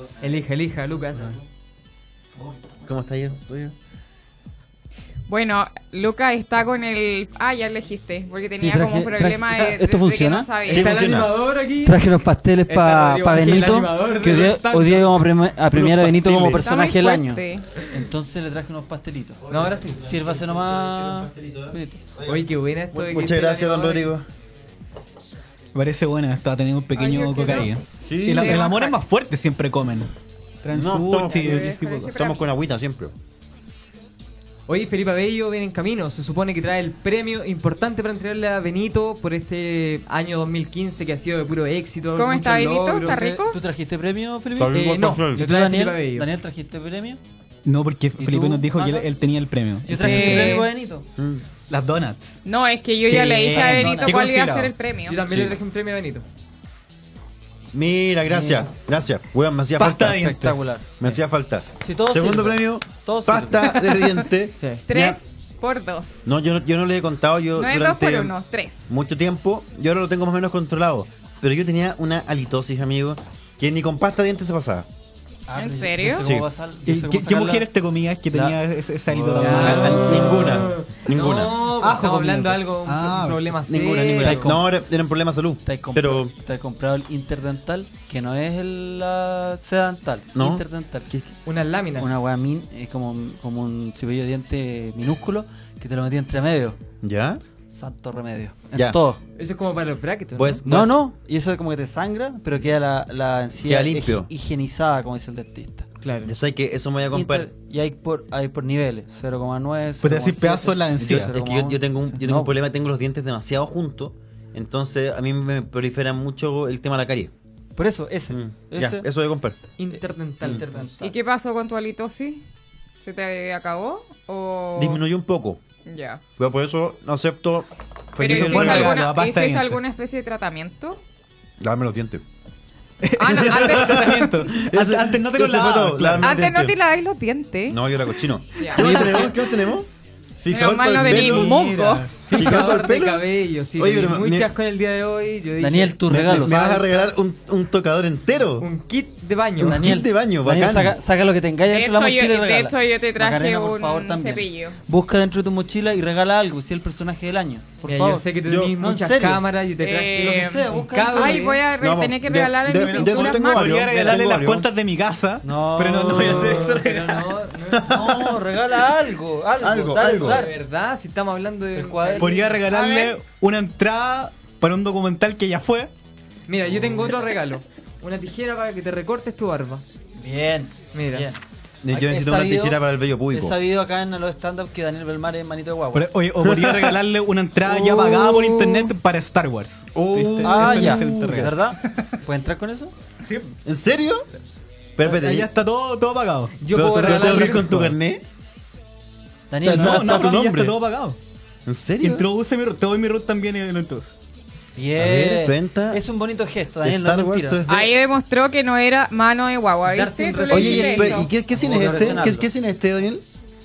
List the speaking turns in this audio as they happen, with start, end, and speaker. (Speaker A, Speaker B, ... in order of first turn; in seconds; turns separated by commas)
Speaker A: 0.2-1.4, Speaker B: 2.8-3.7, Speaker C: 5.3-10.9, Speaker D: 8.6-10.5, Speaker B: 10.7-11.3, Speaker A: 10.7-12.0, Speaker D: 11.8-19.4, Speaker A: 12.7-15.2, Speaker B: 15.7-16.7, Speaker C: 16.6-17.7, Speaker B: 19.5-24.3, Speaker A: 19.5-20.1, Speaker D: 20.0-22.0, Speaker A: 22.2-24.1, Speaker E: 25.7-30.1, Speaker C: 26.9-27.8, Speaker B: 28.0-28.7, Speaker C: 28.3-29.0, Speaker E: 30.6-32.1, Speaker B: 30.7-33.1, Speaker C: 31.2-32.5, Speaker A: 34.7-43.1, Speaker C: 42.2-43.6, Speaker D: 43.0-47.2, Speaker B: 44.6-45.5, Speaker A: 44.7-46.3, Speaker E: 47.7-50.6, Speaker D: 48.2-49.0, Speaker D: 49.9-51.1, Speaker C: 50.0-50.7, Speaker A: 50.0-50.6, Speaker B: 51.2-51.5, Speaker E: 51.7-52.4, Speaker C: 52.5-55.2, Speaker E: 53.1-54.7, Speaker D: 53.5-54.2, Speaker A: 55.1-56.2, Speaker B: 55.3-55.5, Speaker B: 57.7-60.3, Speaker D: 58.3-58.7, Speaker E: 59.8-60.6, Speaker D: 59.8-61.2, Speaker B: 61.0-65.2, Speaker D: 61.8-63.8, Speaker A: 64.5-64.8, Speaker C: 64.9-66.3, Speaker B: 66.2-68.3, Speaker C: 67.6-68.9, Speaker B: 68.9-74.9, Speaker D: 75.5-77.7, Speaker C: 75.6-76.2, Speaker E: 76.9-80.6, Speaker D: 78.3-79.7, Speaker A: 79.4-84.5, Speaker B: 79.5-81.6, Speaker E: 81.8-83.5, Speaker B: 83.7-86.3, Speaker D: 84.2-84.6, Speaker D: 85.7-91.1, Speaker B: 90.3-91.3, Speaker A: 91.5-92.2, Speaker D: 92.0-96.8, Speaker B: 97.0-97.4, Speaker D: 97.7-99.2, Speaker A: 99.4-100.6, Speaker B: 100.4-101.0, Speaker D: 100.7-105.9, Speaker B: 103.6-104.3, Speaker A: 106.0-106.3, Speaker B: 106.2-107.5, Speaker D: 107.1-112.5, Speaker E: 110.0-111.3, Speaker B: 111.0-117.3, Speaker D: 117.8-119.1, Speaker B: 118.3-119.6, Speaker A: 119.8-120.6, Speaker D: 120.4-121.1, Speaker C: 121.0-122.4, Speaker C: 123.0-125.0, Speaker B: 124.8-125.6, Speaker C: 125.9-126.2, Speaker B: 126.4-129.0, Speaker C: 128.2-131.0, Speaker E: 128.2-129.8, Speaker B: 131.6-132.2, Speaker E: 133.0-136.4, Speaker C: 133.2-134.5, Speaker B: 133.3-136.8, Speaker C: 136.2-137.8, Speaker B: 137.7-139.9, Speaker C: 138.6-139.1, Speaker E: 138.8-139.3, Speaker B: 140.4-141.7, Speaker C: 140.5-142.1, Speaker E: 141.0-142.3, Speaker A: 142.2-146.5, Speaker B: 142.3-143.2, Speaker B: 143.8-144.5, Speaker D: 145.6-146.8, Speaker B: 146.1-148.7, Speaker A: 148.6-149.9, Speaker B: 149.6-151.0, Speaker D: 149.6-158.3, Speaker C: 151.7-154.8, Speaker A: 157.8-161.6, Speaker B: 158.4-158.8, Speaker D: 158.8-159.4, Speaker C: 159.8-163.8, Speaker D: 160.2-161.4, Speaker B: 161.8-164.7, Speaker E: 162.8-167.2, Speaker D: 165.4-166.9, Speaker A: 166.5-167.9, Speaker B: 167.8-168.4, Speaker D: 167.9-170.5, Speaker B: 169.6-170.5, Speaker A: 170.1-172.6, Speaker D: 171.8-172.5, Speaker E: 172.2-175.9, Speaker C: 172.7-173.2, Speaker A: 176.5-179.8, Speaker D: 180.2-186.1, Speaker A: 180.9-181.3, Speaker B: 181.8-183.6, Speaker E: 185.9-191.6, Speaker B: 186.4-187.0, Speaker B: 187.6-188.9, Speaker B: 189.9-191.5, Speaker D: 190.4-192.9, Speaker E: 193.2-193.5, Speaker B: 193.6-194.2, Speaker B: 195.0-195.5, Speaker E: 195.0-197.9, Speaker A: 196.6-197.8, Speaker B: 196.7-198.2, Speaker D: 199.5-200.3, Speaker B: 199.6-200.8, Speaker E: 199.6-201.2, Speaker B: 201.7-202.2, Speaker E: 202.0-204.1, Speaker D: 204.8-207.6, Speaker B: 205.0-206.0, Speaker B: 206.8-207.9, Speaker C: 207.7-211.3, Speaker A: 209.9-211.2, Speaker B: 210.5-213.2, Speaker D: 211.5-212.5